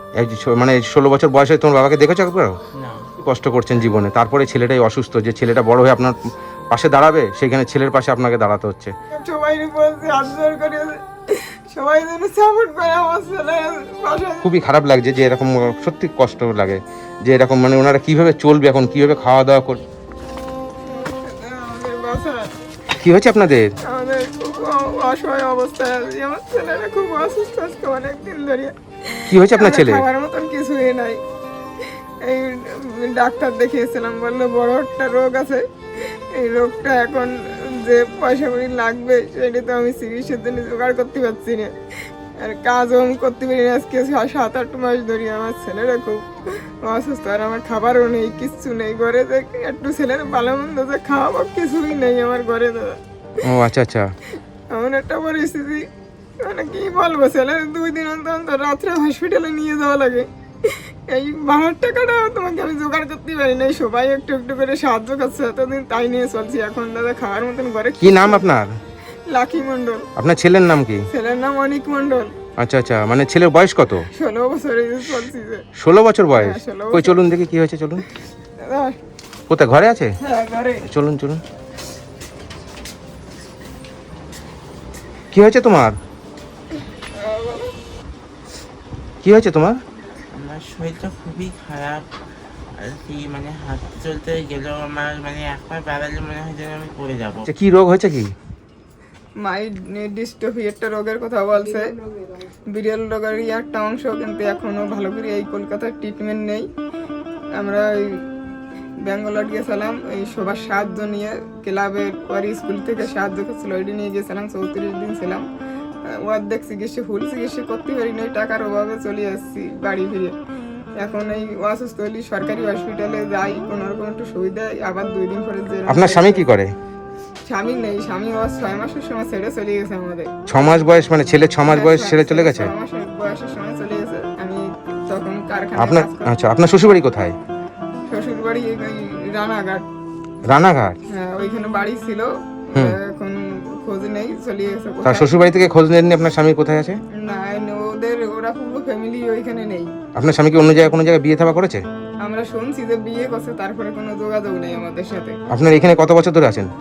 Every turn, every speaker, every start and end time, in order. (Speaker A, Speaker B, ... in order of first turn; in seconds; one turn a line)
Speaker A: 0.1-2.5
Speaker B: 2.8-3.1
Speaker A: 3.2-6.2
Speaker A: 6.7-8.9
Speaker C: 9.1-14.5
Speaker A: 14.4-19.8
Speaker C: 20.8-22.5
Speaker A: 23.0-23.7
Speaker C: 23.8-28.7
Speaker A: 29.3-30.0
Speaker C: 29.3-31.2
Speaker C: 32.2-35.6
Speaker C: 36.3-41.7
Speaker C: 42.4-53.0
Speaker A: 53.4-54.1
Speaker C: 54.7-55.8
Speaker C: 56.4-68.5
Speaker A: 68.0-68.8
Speaker C: 69.3-70.1
Speaker A: 70.2-71.0
Speaker C: 71.1-72.3
Speaker A: 72.6-74.1
Speaker C: 74.1-75.6
Speaker A: 75.8-78.0
Speaker C: 76.4-77.2
Speaker C: 78.6-78.9
Speaker A: 79.5-80.1
Speaker C: 80.2-80.8
Speaker A: 80.9-81.4
Speaker A: 85.3-86.0
Speaker C: 87.0-87.7
Speaker A: 89.2-89.8
Speaker B: 90.3-92.0
Speaker B: 92.8-97.5
Speaker A: 97.5-98.3
Speaker C: 99.4-101.9
Speaker C: 102.7-106.7
Speaker C: 107.6-108.2
Speaker C: 109.0-115.4
Speaker C: 116.2-120.3
Speaker C: 121.0-126.5
Speaker A: 125.9-126.7
Speaker C: 127.5-130.3
Speaker A: 130.5-132.7
Speaker C: 131.7-136.3
Speaker A: 135.8-137.3
Speaker C: 138.1-139.8
Speaker A: 140.5-141.0
Speaker C: 141.1-145.3
Speaker A: 145.0-147.0
Speaker C: 147.1-149.9
Speaker A: 150.1-151.8
Speaker C: 152.2-155.4
Speaker A: 155.5-156.7